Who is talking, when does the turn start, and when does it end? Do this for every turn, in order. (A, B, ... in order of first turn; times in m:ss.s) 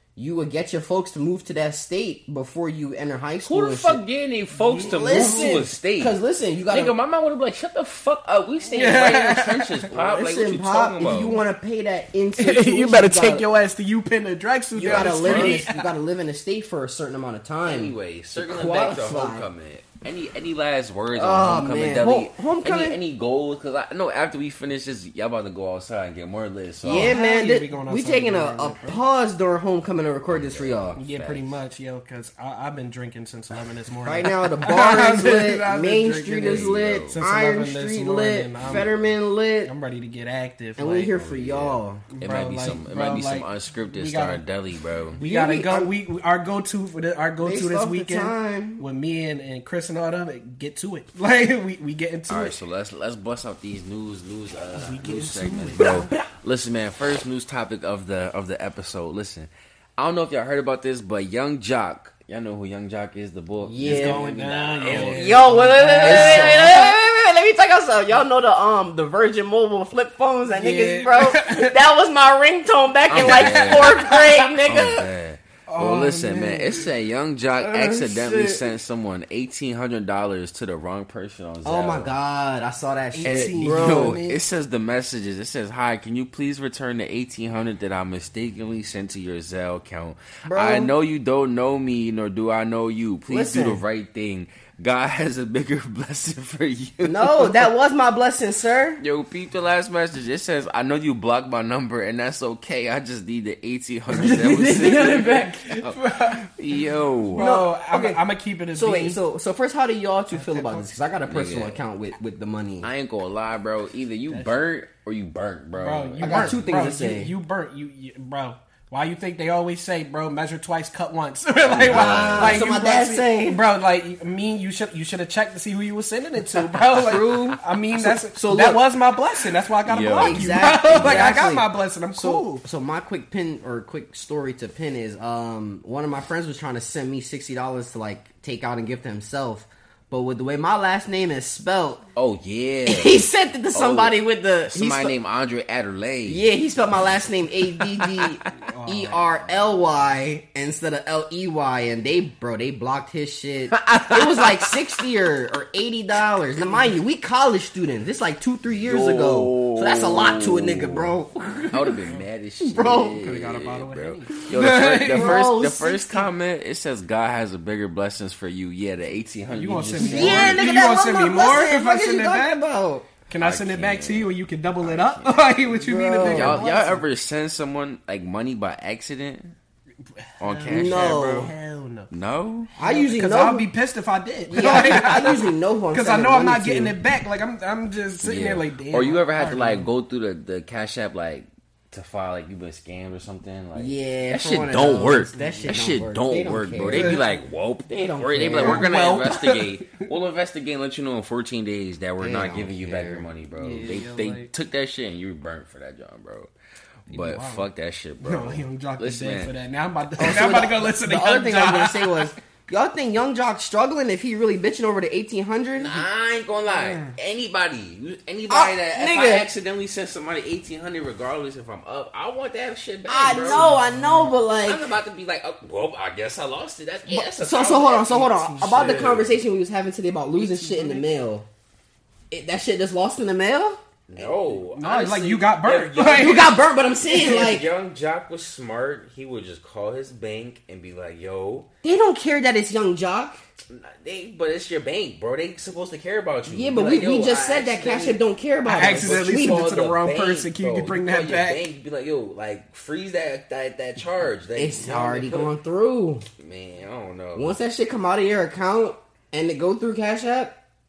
0:00.2-0:04.0 A
0:03.4-0:06.2 B
0:04.5-0:05.6 C
0:04.8-0:06.9 A
0:06.7-0:11.4 B
0:08.7-0:09.9 C
0:09.9-0:13.4 A
0:12.4-0:15.9 C
0:14.8-0:19.5 A
0:14.8-0:15.7 B
0:17.6-0:27.1 B
0:21.1-0:23.0 A
0:26.8-0:29.0 C
0:26.9-0:31.0 A
0:30.3-0:31.5 B
0:31.0-0:38.9 C
0:34.0-0:39.7 A
0:36.4-0:37.2 B
0:39.7-0:41.1 C
0:40.8-0:42.0 A
0:41.1-0:45.2 B
0:42.1-0:44.4 C
0:45.1-0:52.6 C
0:45.2-0:45.9 A
0:47.4-0:48.8 A
0:52.3-1:06.8 B
0:54.7-0:56.1 C
0:55.8-0:56.2 A
1:03.6-1:04.2 A
1:03.8-1:06.9 C
1:04.9-1:15.1 A
1:10.5-1:11.8 C
1:13.1-1:22.1 B
1:13.1-1:14.5 C
1:15.7-1:16.9 C
1:17.6-1:18.6 A
1:21.6-1:24.2 A
1:23.1-1:24.4 C
1:23.2-1:37.7 B
1:30.5-1:30.9 A
1:33.3-1:33.8 A
1:37.0-1:39.0 A
1:39.0-1:47.5 B
1:44.1-1:45.7 A
1:44.2-1:46.5 C
1:47.2-1:49.2 C
1:47.4-1:48.2 A
1:48.7-1:52.9 A
1:50.3-1:50.9 C
1:51.2-1:51.8 B
1:52.8-1:56.7 B
1:55.8-2:12.6 C
1:56.2-1:57.3 A
2:01.6-2:02.7 B
2:01.8-2:03.6 A
2:06.8-2:08.8 A
2:09.8-2:11.2 B
2:10.2-2:22.0 A
2:22.2-2:23.2 B
2:22.9-2:25.2 A
2:23.7-2:26.4 B
2:26.2-2:41.9 A
2:27.8-2:28.3 B
2:28.5-2:29.2 C
2:33.7-2:34.8 B
2:38.8-2:41.1 B
2:41.7-2:50.7 B
2:42.6-2:43.2 A
2:43.1-2:45.4 C
2:45.1-2:46.3 A
2:49.5-2:52.6 C
2:50.0-2:53.1 A
2:53.3-2:57.0 C
2:53.4-2:55.5 B
2:55.8-2:56.6 A
2:56.2-2:59.5 B
3:00.2-3:02.1 C
3:00.4-3:01.5 B
3:00.7-3:01.5 A
3:02.1-3:02.7 B
3:02.8-3:09.9 C
3:02.8-3:03.7 A
3:04.5-3:07.0 A
3:08.2-3:26.5 B
3:13.8-3:17.2 A
3:15.3-3:15.8 C
3:16.9-3:17.2 C
3:17.9-3:18.9 A
3:18.4-3:20.0 C
3:22.2-3:23.2 A
3:23.6-3:24.5 C
3:27.1-3:29.5 B
3:27.1-3:27.6 C
3:28.2-3:32.3 C
3:30.2-3:36.0 A
3:35.8-3:43.7 B
3:36.7-3:37.1 C
3:38.5-3:39.5 A
3:43.1-3:44.9 A
3:43.3-3:44.3 C
3:44.6-3:49.3 B
3:47.1-3:51.5 A
3:48.3-3:49.2 C
3:50.4-3:51.0 C
3:52.3-3:54.3 A
3:54.1-4:01.7 B
3:54.6-3:56.6 C
3:56.1-3:57.7 A
4:01.8-4:03.4 A
4:03.7-4:08.2 B
4:06.5-4:09.7 A
4:08.6-4:11.6 C
4:08.8-4:15.6 B
4:14.6-4:16.2 A
4:16.4-4:17.6 B
4:17.4-4:20.6 A